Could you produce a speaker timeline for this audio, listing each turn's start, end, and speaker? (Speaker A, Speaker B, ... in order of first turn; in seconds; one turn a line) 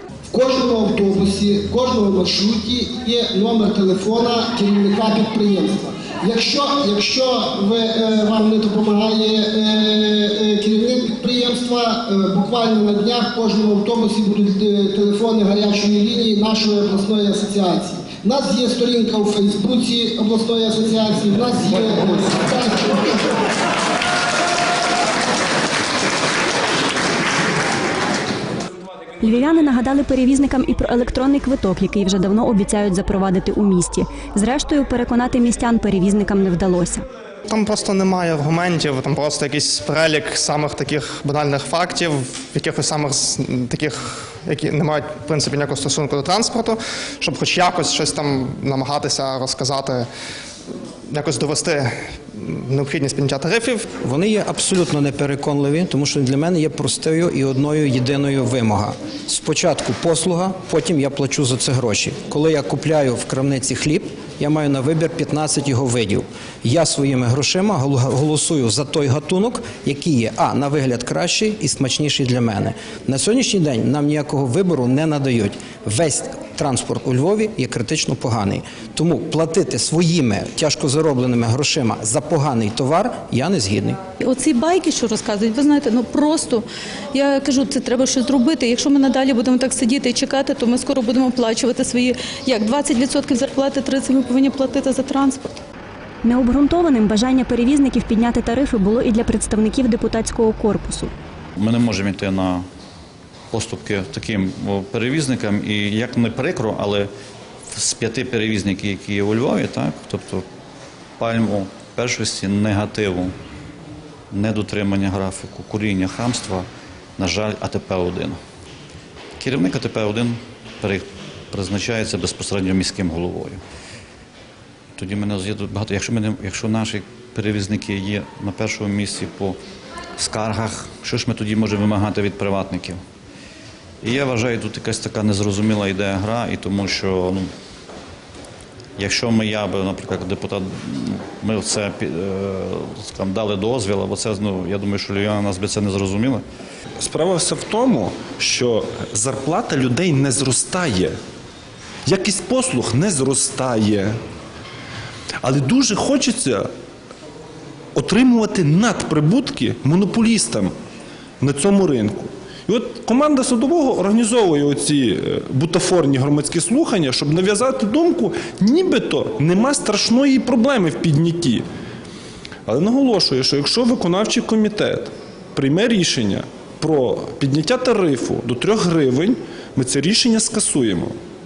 Speaker A: 0.3-23.3
Speaker B: 29.2-37.0
Speaker C: 37.5-50.1
Speaker C: 51.1-54.0
Speaker D: 54.0-84.0
Speaker E: 84.2-95.6
Speaker B: 96.2-101.1
Speaker F: 101.6-102.7
Speaker F: 103.5-107.1
Speaker F: 107.7-110.5
Speaker F: 111.2-113.3
Speaker F: 114.3-116.7
Speaker F: 117.2-118.4
Speaker F: 119.4-123.6
Speaker F: 125.0-129.6
Speaker F: 130.2-133.0
Speaker F: 134.0-137.5
Speaker F: 139.0-146.4
Speaker G: 147.0-151.2
Speaker G: 152.1-154.2
Speaker G: 155.4-156.7
Speaker G: 157.9-160.7
Speaker G: 161.4-171.7
Speaker G: 172.7-181.2